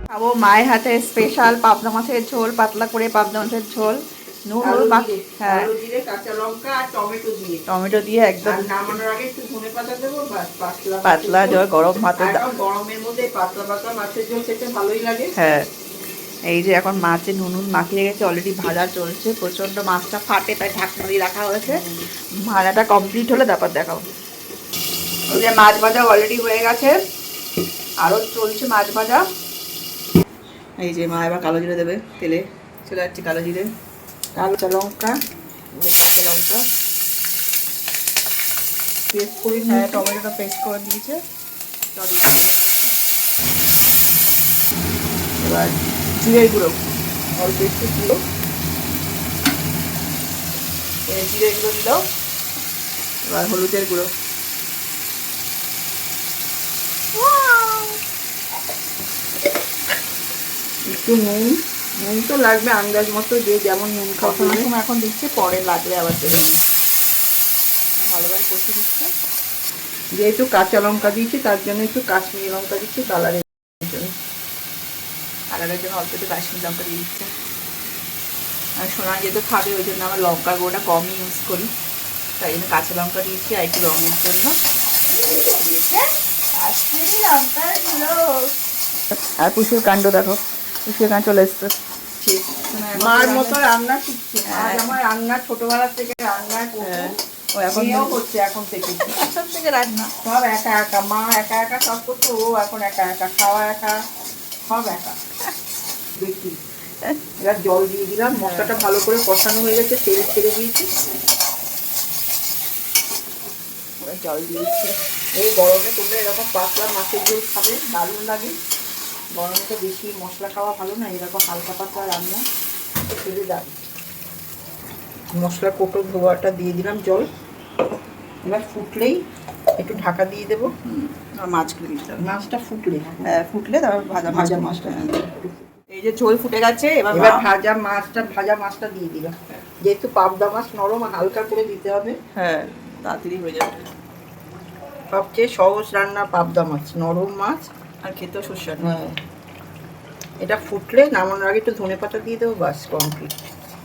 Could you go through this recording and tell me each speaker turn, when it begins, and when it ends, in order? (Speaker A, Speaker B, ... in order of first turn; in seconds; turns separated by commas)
Speaker A: 0.1-5.7, Speaker B: 4.6-7.7, Speaker A: 7.7-8.9, Speaker B: 8.4-11.6, Speaker A: 11.0-12.4, Speaker B: 12.2-15.3, Speaker A: 15.3-15.7, Speaker A: 16.5-24.1, Speaker A: 25.3-27.0, Speaker A: 28.0-29.2, Speaker A: 30.8-33.7, Speaker B: 34.4-35.1, Speaker A: 35.8-36.6, Speaker B: 39.1-40.0, Speaker A: 39.7-41.2, Speaker A: 42.0-42.9, Speaker A: 45.4-46.8, Speaker B: 47.4-48.2, Speaker A: 51.1-52.0, Speaker A: 53.2-54.1, Speaker A: 57.2-58.0, Speaker B: 60.9-64.7, Speaker A: 64.2-66.6, Speaker A: 68.0-69.1, Speaker B: 70.2-74.1, Speaker A: 75.5-77.3, Speaker A: 78.8-81.7, Speaker A: 82.4-84.6, Speaker A: 85.3-86.0, Speaker A: 86.6-88.5, Speaker A: 89.1-93.6, Speaker B: 92.9-97.2, Speaker A: 94.5-95.0, Speaker A: 96.8-98.2, Speaker B: 97.7-99.2, Speaker A: 99.1-100.1, Speaker B: 100.2-104.0, Speaker B: 104.7-105.2, Speaker B: 106.2-106.6, Speaker B: 107.4-110.9, Speaker A: 108.3-108.8, Speaker A: 114.0-115.0, Speaker B: 115.3-118.5, Speaker B: 119.3-122.4, Speaker B: 123.2-123.9, Speaker B: 125.3-127.3, Speaker B: 128.4-129.2, Speaker B: 129.8-130.7, Speaker A: 130.8-132.3, Speaker B: 132.2-133.3, Speaker A: 133.2-135.3, Speaker B: 134.3-135.4, Speaker A: 135.9-137.5, Speaker B: 137.1-142.2, Speaker A: 142.3-143.7, Speaker B: 145.1-147.7, Speaker A: 148.0-149.0, Speaker B: 148.8-149.2, Speaker B: 150.4-153.3